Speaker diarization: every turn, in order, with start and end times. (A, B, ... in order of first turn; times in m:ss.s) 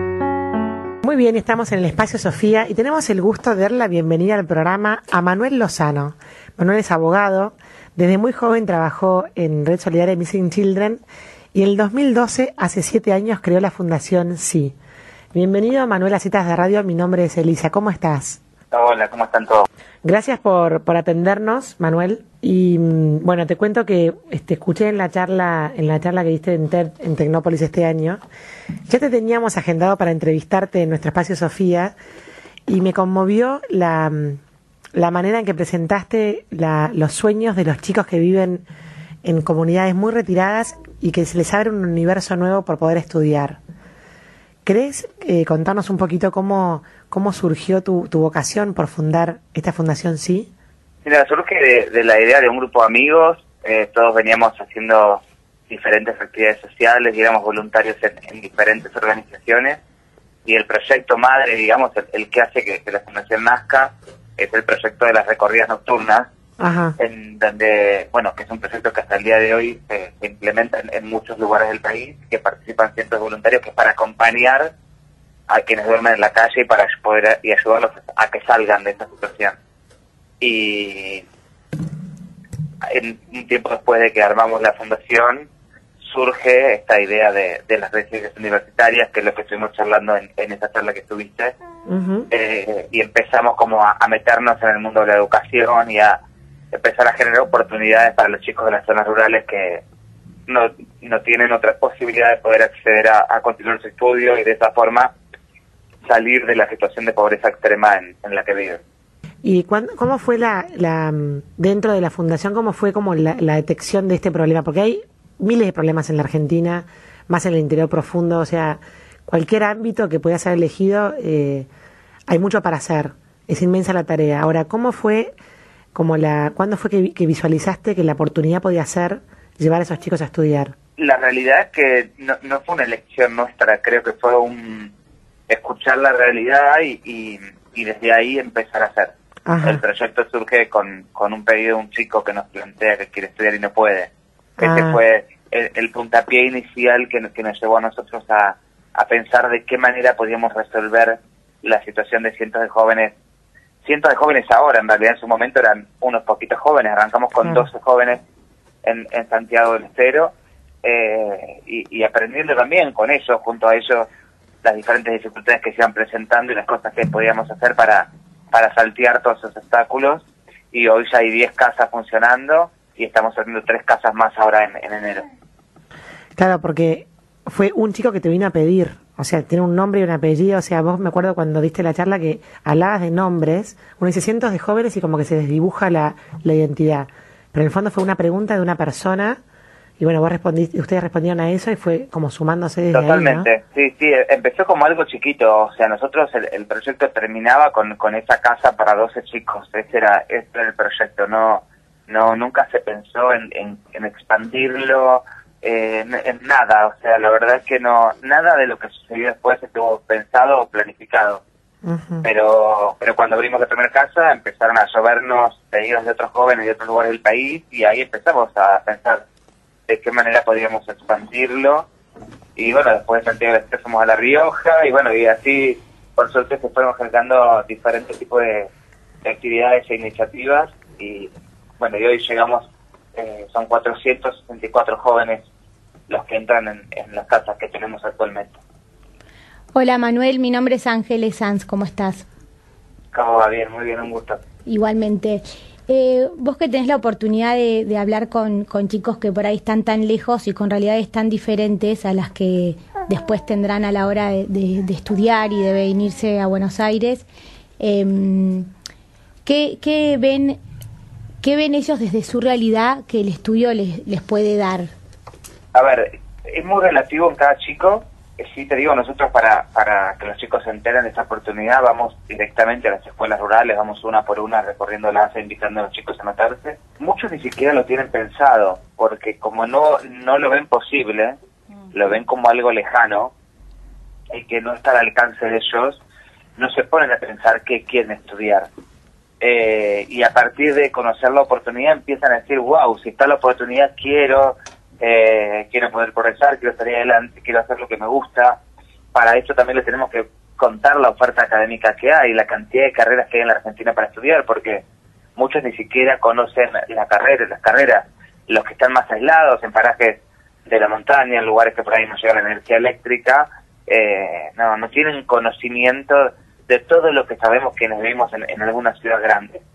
0:01.0-0:14.7 A
0:15.3-0:18.4 A
0:18.7-0:19.7 B
0:20.0-0:28.2 A
0:28.9-0:31.9 A
0:32.7-0:34.4 A
0:34.9-0:38.6 A
0:39.2-0:43.6 A
0:44.6-0:50.5 A
0:51.0-0:59.8 B
1:00.4-1:06.3 B
1:06.6-1:07.0 A
1:07.0-1:14.7 B
1:15.5-1:19.5 B
1:20.4-1:21.2 B
1:22.8-1:25.5 B
1:26.0-1:31.5 B
1:31.9-1:32.3 A
1:32.3-1:36.2 B
1:36.7-1:39.8 B
1:40.5-1:45.1 B
1:46.0-1:48.8 B
1:49.4-2:01.7 A
2:02.3-2:05.3 A
2:05.9-2:10.7 A
2:11.0-2:14.9 B
2:15.5-2:33.1 B
2:19.4-2:19.8 A
2:24.6-2:25.0 A
2:33.8-2:38.2 B
2:38.8-2:44.1 B
2:44.6-2:55.2 B
2:56.4-3:09.4 A
3:10.0-3:13.5 A
3:12.9-3:31.4 B
3:31.8-3:32.3 A
3:32.2-3:39.2 B
3:39.9-3:41.9 B
3:42.6-3:48.7 B
3:49.2-3:55.4 B
3:56.1-3:58.6 B
3:59.7-4:02.2 C
4:03.1-4:04.4 B
4:04.7-4:17.2 C
4:17.8-4:18.6 C
4:19.4-4:20.6 C
4:21.4-4:24.9 C
4:25.7-4:41.4 B
4:41.9-4:43.3 B
4:44.3-4:46.0 B
4:46.6-4:48.7 B
4:49.4-4:58.6 B
4:59.1-5:04.8 B
5:05.4-5:19.6 B